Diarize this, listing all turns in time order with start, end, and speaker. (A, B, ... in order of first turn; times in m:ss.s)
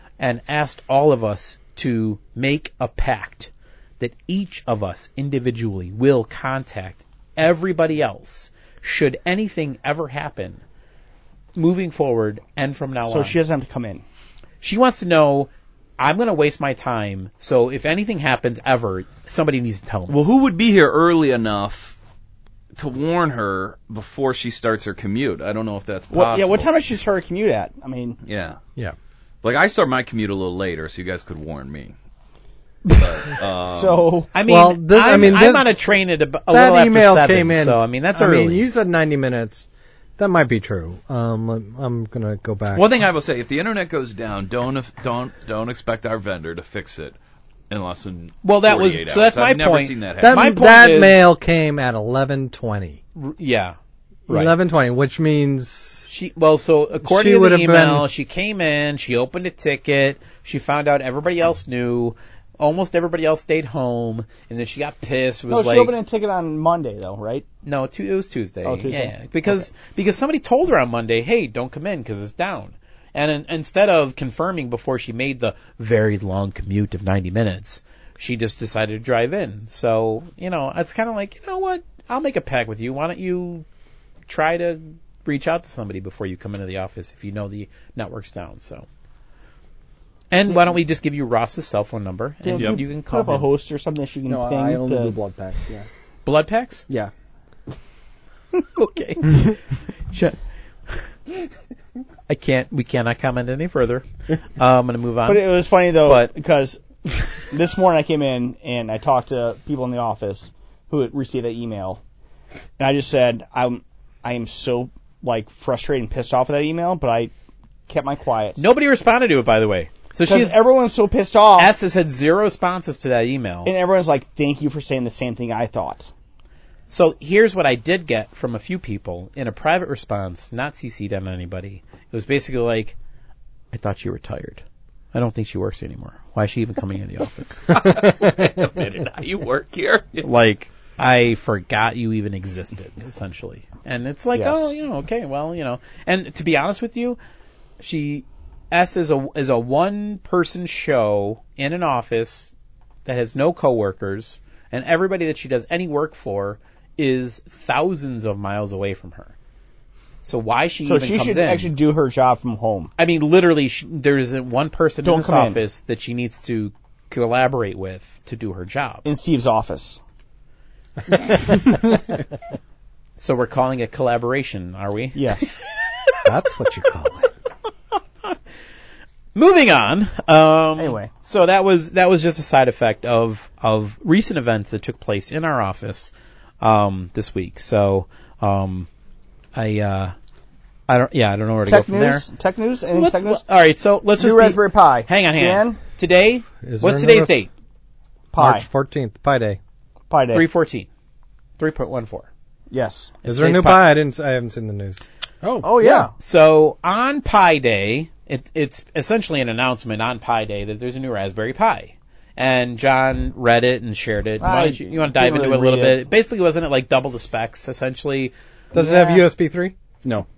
0:00.2-0:10.6 A
0:11.6-0:13.4 A
0:13.0-0:14.0 B
0:14.6-0:20.2 A
0:20.1-0:22.0 C
0:22.8-0:26.7 C
0:26.1-0:28.2 B
0:28.2-0:28.6 C
0:29.4-0:31.9 C
0:32.9-0:34.1 C
0:33.7-0:34.3 B
0:34.3-0:38.6 A
0:34.5-0:35.8 D
0:36.5-0:42.9 D
0:42.8-0:47.2 C
0:47.7-0:50.4 C
0:48.4-0:51.2 A
0:50.2-0:53.0 D
0:53.2-0:53.8 A
0:54.3-0:54.6 A
0:54.3-0:56.1 D
0:56.1-1:05.9 A
0:57.0-0:58.1 D
1:05.5-1:07.5 B
1:07.6-1:23.6 A
1:08.6-1:09.6 B
1:24.3-1:28.9 A
1:30.3-1:33.5 A
1:32.4-1:35.1 B
1:34.3-1:35.9 E
1:36.2-1:36.8 A
1:38.8-1:41.1 A
1:42.3-1:46.3 A
1:45.3-1:46.8 B
1:47.1-1:47.5 A
1:47.5-1:52.0 B
1:52.8-1:57.3 B
1:57.9-1:58.6 B
1:58.6-2:00.6 A
2:00.2-2:01.7 B
2:01.6-2:03.7 A
2:03.7-2:06.1 B
2:06.9-2:13.0 A
2:13.7-2:17.8 A
2:17.7-2:20.3 C
2:20.2-2:27.2 A
2:24.3-2:24.7 B
2:27.8-2:32.5 A
2:33.0-2:39.3 A
2:40.2-2:41.7 A
2:40.8-2:42.9 B
2:43.0-2:49.0 A
2:45.0-2:45.6 B
2:49.0-2:50.0 B
2:51.5-2:51.8 D
2:53.2-2:55.4 A
2:55.2-2:55.6 B
2:56.2-2:57.3 D
2:59.4-3:08.9 A
3:00.8-3:01.1 B
3:09.5-3:10.2 A
3:10.9-3:12.3 A
3:11.7-3:13.4 B
3:12.9-3:17.5 A
3:14.2-3:15.8 B
3:16.6-3:17.4 D
3:18.3-3:18.7 B
3:18.4-3:19.6 D
3:20.1-3:20.4 B
3:20.3-3:20.9 A
3:21.6-3:22.3 A
3:22.7-3:23.2 B
3:23.2-3:23.9 A
3:23.3-3:25.0 D
3:25.4-3:25.7 E
3:25.6-3:26.1 B
3:25.8-3:38.3 A
3:34.4-3:36.0 B
3:38.7-3:39.8 D
3:38.8-3:39.2 B